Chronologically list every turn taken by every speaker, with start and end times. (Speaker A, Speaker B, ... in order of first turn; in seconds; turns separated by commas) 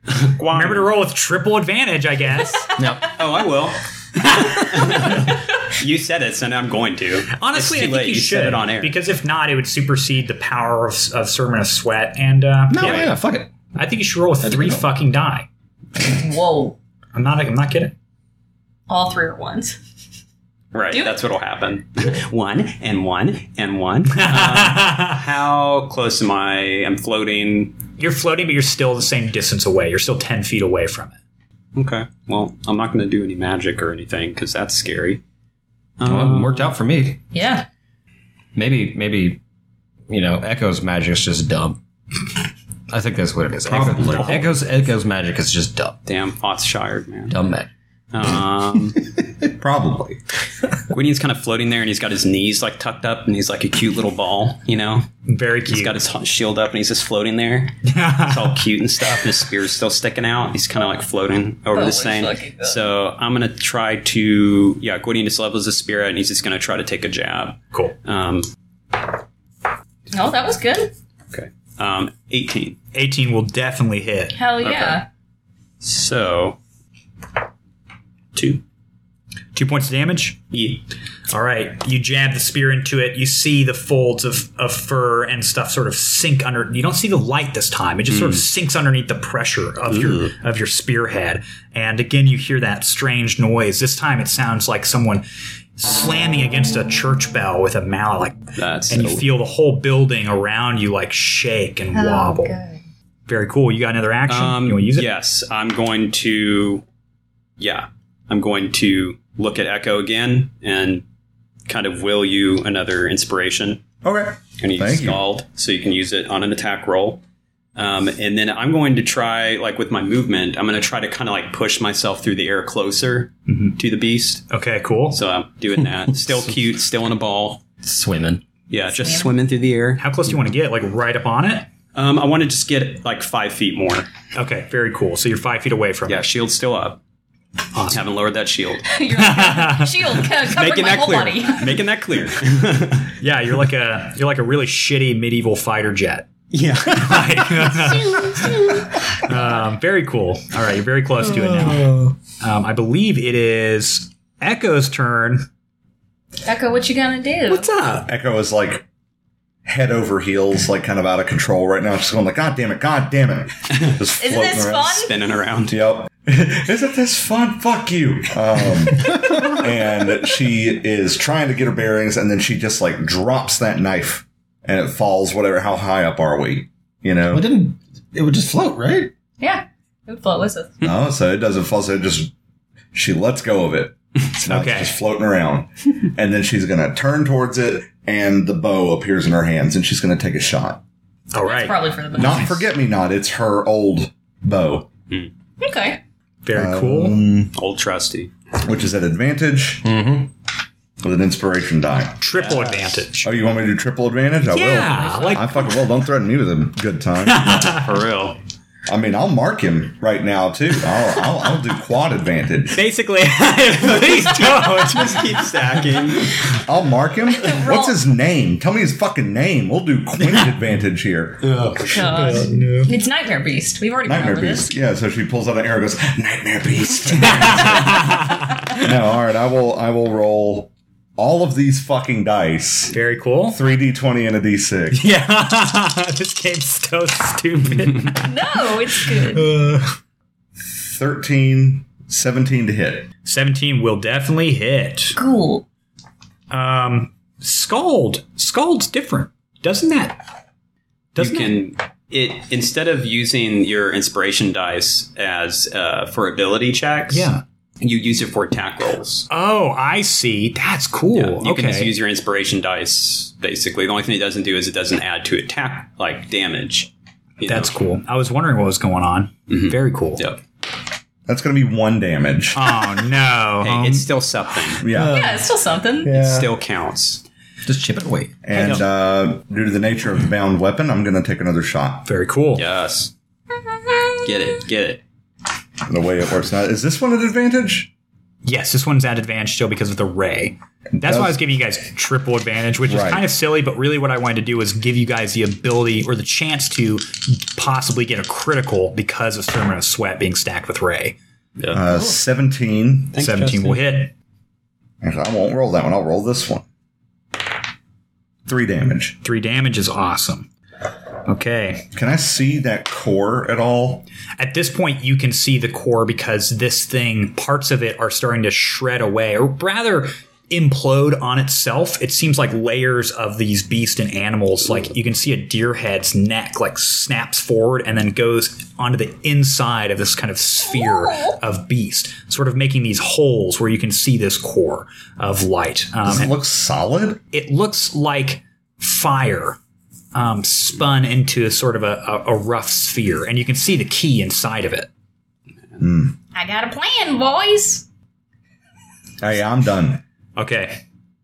Speaker A: 0.2-0.9, Speaker B: 0.5-2.8, Speaker C: 2.8-3.1, Speaker A: 3.1-8.9, Speaker B: 7.3-13.1, Speaker C: 12.7-13.5, Speaker B: 13.7-15.5, Speaker C: 14.4-14.8, Speaker D: 16.0-16.8, Speaker B: 17.1-17.9, Speaker D: 18.9-19.8, Speaker A: 20.7-27.8, Speaker D: 20.9-21.1, Speaker B: 24.1-25.2, Speaker B: 28.0-31.2, Speaker A: 31.7-35.2, Speaker A: 36.0-36.7, Speaker C: 36.0-37.2, Speaker D: 37.3-37.7, Speaker C: 38.5-39.4, Speaker C: 40.1-41.8, Speaker C: 42.9-46.0, Speaker E: 43.7-44.5, Speaker B: 43.8-44.4, Speaker A: 46.0-47.4, Speaker C: 47.3-47.7, Speaker A: 48.1-49.0, Speaker E: 49.6-50.2, Speaker A: 50.9-55.1, Speaker B: 55.2-56.0, Speaker A: 55.7-68.5, Speaker B: 57.9-58.6, Speaker D: 61.7-62.8, Speaker D: 70.1-70.9, Speaker A: 71.3-72.8, Speaker B: 72.9-74.4, Speaker D: 74.3-75.0, Speaker A: 74.6-75.0, Speaker A: 75.8-76.6, Speaker A: 78.3-78.6, Speaker B: 79.5-95.2, Speaker A: 88.1-88.4, Speaker A: 89.9-90.3, Speaker B: 95.8-102.5, Speaker A: 98.6-99.3, Speaker D: 101.9-102.8, Speaker B: 103.3-105.1, Speaker A: 104.3-106.8, Speaker A: 107.6-111.0, Speaker A: 111.7-113.8, Speaker E: 114.0-115.2, Speaker A: 114.6-117.2, Speaker A: 117.8-124.5, Speaker B: 123.5-123.8, Speaker B: 124.5-125.2, Speaker A: 125.1-127.6, Speaker C: 127.8-128.4, Speaker A: 128.7-130.0, Speaker D: 129.0-129.3, Speaker B: 130.0-131.7, Speaker A: 131.9-134.1, Speaker B: 134.3-136.2, Speaker A: 136.1-137.0, Speaker B: 137.7-138.0, Speaker A: 137.9-138.9, Speaker D: 138.9-141.7, Speaker B: 139.1-140.1, Speaker A: 140.3-143.1, Speaker B: 143.2-146.3, Speaker A: 146.5-148.6, Speaker B: 146.9-148.5, Speaker D: 147.7-149.3, Speaker B: 149.2-155.5, Speaker C: 151.4-152.1, Speaker D: 156.4-157.7, Speaker B: 157.5-158.1, Speaker E: 158.1-158.8, Speaker E: 159.6-165.1, Speaker D: 164.2-165.1, Speaker A: 165.0-165.8, Speaker E: 165.7-177.5, Speaker C: 169.0-169.6, Speaker C: 177.3-179.1, Speaker D: 179.4-180.8, Speaker E: 180.8-182.3, Speaker E: 182.9-190.8, Speaker B: 184.4-184.9, Speaker B: 191.3-191.8, Speaker D: 191.4-192.6, Speaker E: 192.1-194.9, Speaker D: 195.6-196.0, Speaker B: 196.4-197.2, Speaker E: 196.5-197.5, Speaker A: 197.5-198.3, Speaker E: 198.6-199.9, Speaker C: 199.8-200.3, Speaker E: 201.0-202.2, Speaker B: 202.2-203.3, Speaker A: 202.3-203.0, Speaker E: 203.2-207.6, Speaker B: 204.5-205.6, Speaker B: 207.2-207.9, Speaker A: 207.5-208.4, Speaker E: 208.9-212.8, Speaker B: 212.7-215.3, Speaker A: 213.8-216.4, Speaker E: 216.5-221.7, Speaker D: 217.3-217.9, Speaker B: 221.5-222.9, Speaker A: 221.7-222.3, Speaker D: 221.9-224.7, Speaker E: 224.0-228.1, Speaker B: 227.1-228.6, Speaker E: 228.7-235.0, Speaker B: 232.9-233.6, Speaker B: 234.9-238.3, Speaker D: 238.1-239.5, Speaker B: 238.9-239.9, Speaker E: 240.8-243.1, Speaker B: 243.2-245.2, Speaker D: 245.2-245.6, Speaker B: 246.5-250.2, Speaker B: 251.2-251.5, Speaker A: 251.2-259.3, Speaker B: 257.1-257.4, Speaker B: 259.3-261.9, Speaker A: 261.1-267.7, Speaker B: 267.4-270.2, Speaker A: 269.5-270.4, Speaker E: 271.3-272.8, Speaker B: 272.5-274.1, Speaker A: 273.6-274.8, Speaker E: 274.8-275.2, Speaker C: 274.9-275.5, Speaker D: 275.0-276.1, Speaker C: 276.0-276.5, Speaker A: 276.1-277.2, Speaker C: 277.6-278.4, Speaker E: 278.4-282.1, Speaker B: 282.1-282.6, Speaker A: 282.6-283.1, Speaker D: 283.7-284.1, Speaker A: 284.2-285.0, Speaker E: 285.9-287.9, Speaker B: 288.4-301.1, Speaker E: 291.0-291.4, Speaker E: 292.9-293.2, Speaker E: 301.7-303.2, Speaker B: 303.1-304.1, Speaker A: 303.1-303.8, Speaker E: 305.0-306.6, Speaker E: 308.4-309.2, Speaker B: 309.2-310.5, Speaker B: 311.2-311.9, Speaker E: 311.9-314.1, Speaker B: 314.4-336.3, Speaker D: 330.6-331.4, Speaker E: 336.0-337.2, Speaker B: 337.3-339.6, Speaker B: 340.1-344.9, Speaker E: 345.8-346.2, Speaker D: 346.3-347.9, Speaker E: 349.2-350.0, Speaker B: 350.4-350.8